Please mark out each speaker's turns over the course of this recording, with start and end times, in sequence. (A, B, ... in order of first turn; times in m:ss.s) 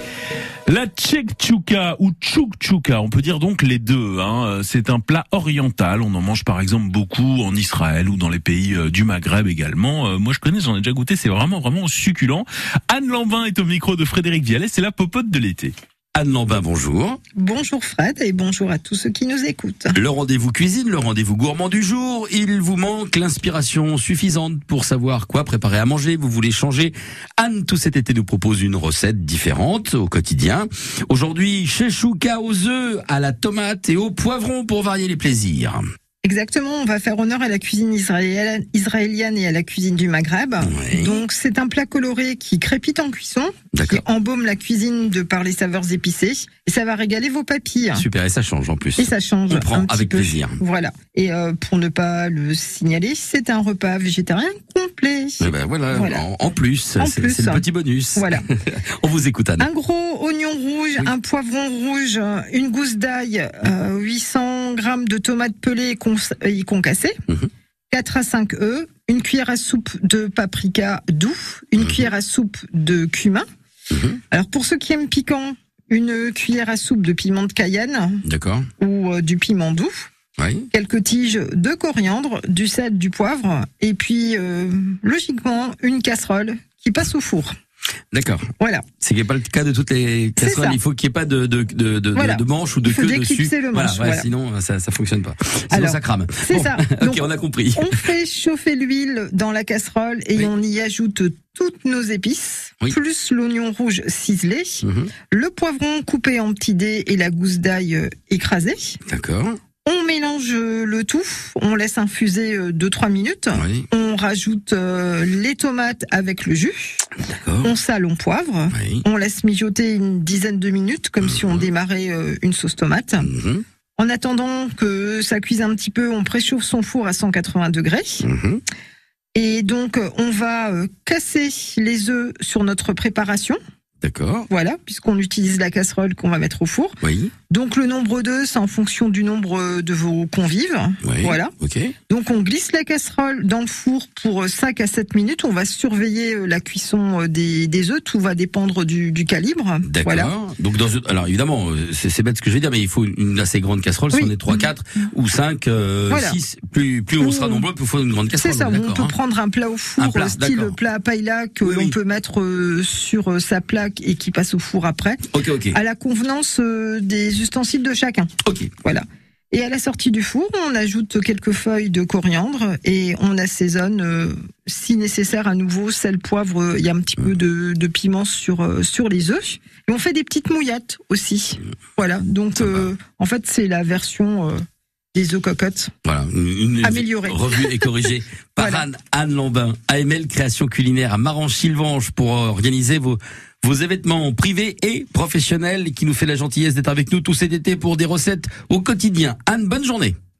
0:00.7-0:15.7 A
0:16.1-0:17.2 B
0:17.3-0:20.0 C
0:19.9-0:35.8 B
0:36.2-0:48.0 C
0:40.6-0:41.2 B
0:43.7-0:44.0 B
0:47.9-0:50.6 B
0:49.0-0:56.2 C
0:55.4-0:59.7 B
0:57.0-0:57.6 C
0:58.2-0:58.4 C
0:59.6-1:07.2 C
1:07.9-1:13.4 C
1:13.9-1:14.2 B
1:14.3-1:18.2 C
1:18.2-1:18.7 B
1:18.8-1:20.1 C
1:20.4-1:20.7 B
1:20.7-1:27.5 C
1:28.1-1:28.5 B
1:28.6-1:28.9 C
1:29.0-1:38.0 B
1:30.4-1:30.8 C
1:32.1-1:34.3 C
1:35.7-1:49.0 C
1:44.8-1:45.1 B
1:49.0-1:49.6 B
1:49.8-1:57.0 C
1:53.5-1:53.8 B
1:57.3-1:57.7 B
1:57.6-2:03.3 C
1:58.7-1:59.0 B
2:01.2-2:01.7 B
2:03.2-2:03.6 B
2:04.0-2:08.2 C
2:08.2-2:08.6 B
2:09.3-2:13.6 C
2:14.0-2:14.5 B
2:14.5-2:17.0 C
2:17.0-2:17.3 B
2:17.5-2:21.5 C
2:21.0-2:21.9 B
2:22.1-2:30.3 C
2:29.8-2:39.1 B
2:34.1-2:34.7 C
2:36.1-2:36.4 C
2:37.2-2:37.7 C
2:38.3-3:04.6 C
2:40.0-2:40.8 B
2:41.6-2:41.9 B
2:45.3-2:45.8 B
2:48.4-2:48.7 B
3:02.6-3:02.9 B
3:05.1-3:05.9 C
3:06.0-3:20.1 B
3:06.8-3:07.9 C
3:08.6-3:08.8 C